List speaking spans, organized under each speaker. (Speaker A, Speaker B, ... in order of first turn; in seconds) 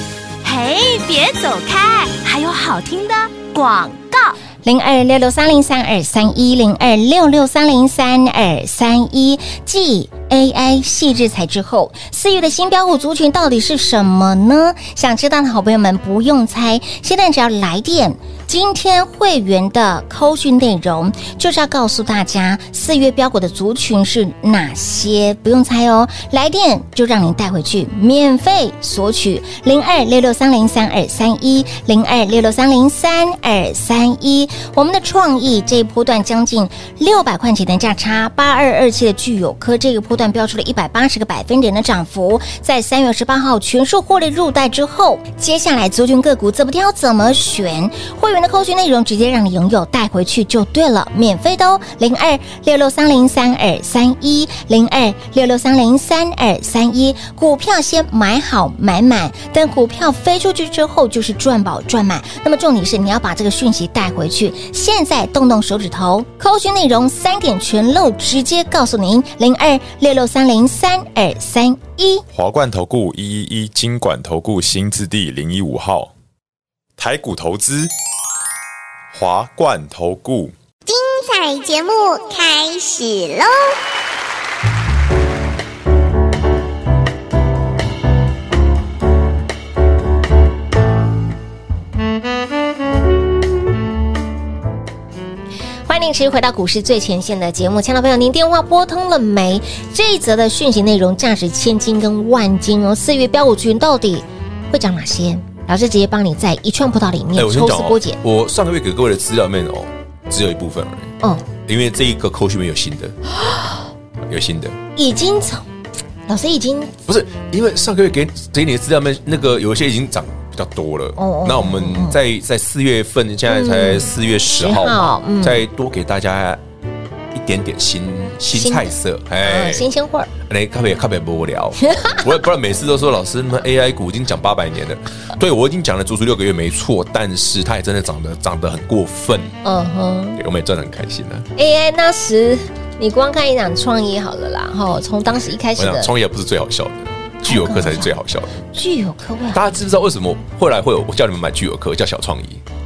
Speaker A: 0.4-4.3
Speaker B: 4.6-72.2, 95.9-108.2, 115.0-115.6, 116.3-116.9, 121.2-122.2, 123.5-125.6, 128.5-130.3, 131.8-132.2, 139.6-140.4, 141.6-146.1, 147.4-148.2, 148.7-149.7
Speaker C: 72.3-76.1, 77.0-77.9, 79.1-80.5
Speaker D: 80.8-83.8
Speaker E: 107.3-113.2, 114.2-114.8, 117.0-126.6, 127.3-129.9, 130.4-139.5, 140.3-141.5, 145.8-148.7, 149.5-152.6